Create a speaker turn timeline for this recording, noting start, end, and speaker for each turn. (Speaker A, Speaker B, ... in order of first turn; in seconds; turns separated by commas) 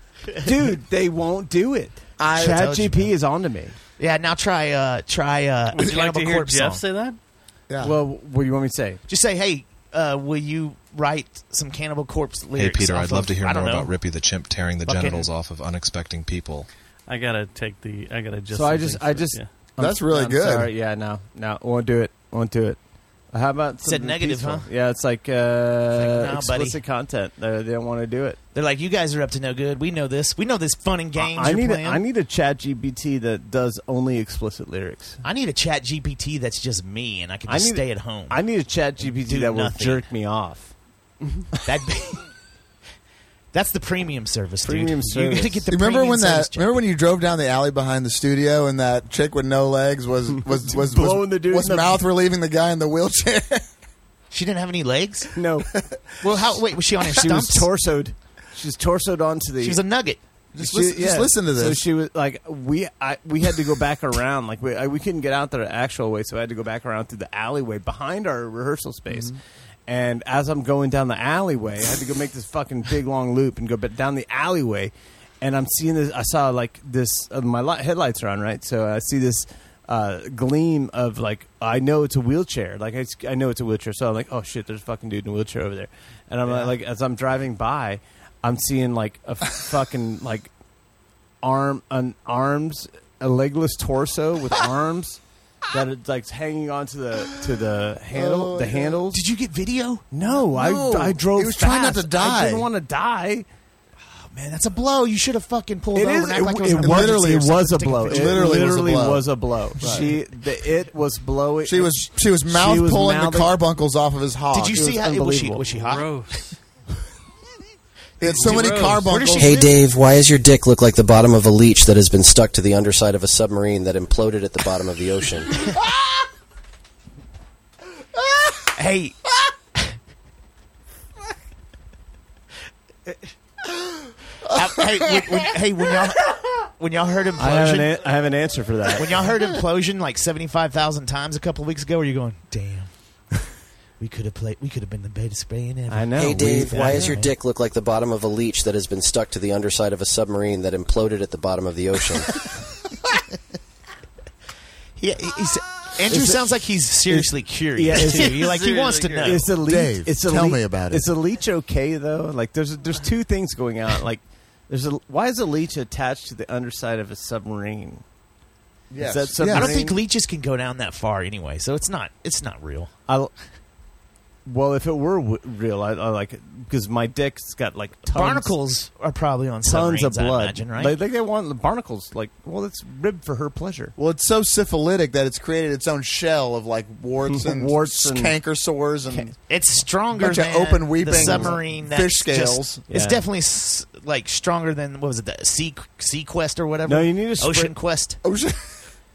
Speaker A: 0.4-3.8, Speaker B: 2.2-2.7, Speaker C: 2.4-3.1, Speaker C: 4.0-6.8, Speaker D: 5.7-7.2, Speaker B: 7.7-8.0, Speaker A: 7.8-9.0, Speaker C: 9.1-13.9, Speaker E: 12.6-16.7, Speaker C: 14.8-15.3, Speaker D: 17.1-19.5, Speaker A: 18.5-22.8, Speaker B: 19.8-20.7, Speaker A: 23.3-28.4, Speaker C: 23.8-24.7, Speaker C: 25.9-26.8, Speaker C: 28.5-32.0, Speaker A: 31.1-35.2, Speaker C: 35.2-38.4, Speaker A: 37.5-40.7, Speaker C: 39.0-40.0, Speaker C: 41.6-42.2, Speaker C: 43.5-46.8, Speaker A: 44.6-45.6, Speaker B: 45.7-53.6, Speaker A: 50.7-52.0, Speaker C: 54.3-55.3, Speaker A: 55.3-55.7, Speaker C: 56.2-57.7, Speaker A: 57.1-59.8, Speaker C: 59.6-60.2, Speaker B: 60.5-61.8, Speaker A: 60.6-90.5, Speaker B: 69.1-69.3, Speaker C: 86.5-86.7, Speaker A: 91.4-99.2, Speaker B: 98.1-99.0, Speaker C: 99.1-100.0, Speaker A: 100.1-103.5, Speaker B: 100.3-102.7, Speaker C: 104.0-108.7, Speaker A: 105.9-113.5, Speaker B: 106.7-109.3, Speaker B: 109.8-110.1, Speaker B: 111.6-114.9, Speaker C: 114.5-116.1, Speaker A: 114.7-115.6, Speaker D: 115.7-116.5, Speaker B: 118.2-119.6, Speaker D: 118.2-119.1, Speaker C: 119.0-119.8, Speaker F: 119.4-125.7, Speaker C: 128.7-129.2, Speaker C: 134.5-138.0, Speaker B: 135.0-135.2, Speaker A: 137.4-139.3, Speaker C: 138.9-142.9, Speaker C: 144.0-147.3, Speaker A: 145.9-147.2, Speaker F: 146.2-152.3, Speaker C: 155.0-159.4, Speaker A: 156.1-156.6, Speaker A: 157.1-158.5, Speaker D: 157.9-159.5, Speaker A: 159.2-168.0, Speaker B: 159.6-161.1, Speaker B: 168.9-169.8, Speaker A: 169.0-170.0, Speaker C: 169.5-172.9, Speaker A: 174.4-178.5, Speaker C: 178.1-180.9, Speaker A: 179.6-183.9, Speaker B: 184.0-189.3, Speaker A: 187.3-188.3, Speaker C: 189.4-198.2, Speaker B: 190.1-192.8, Speaker A: 191.1-191.6, Speaker A: 192.9-193.2, Speaker A: 196.8-197.7, Speaker B: 198.2-198.6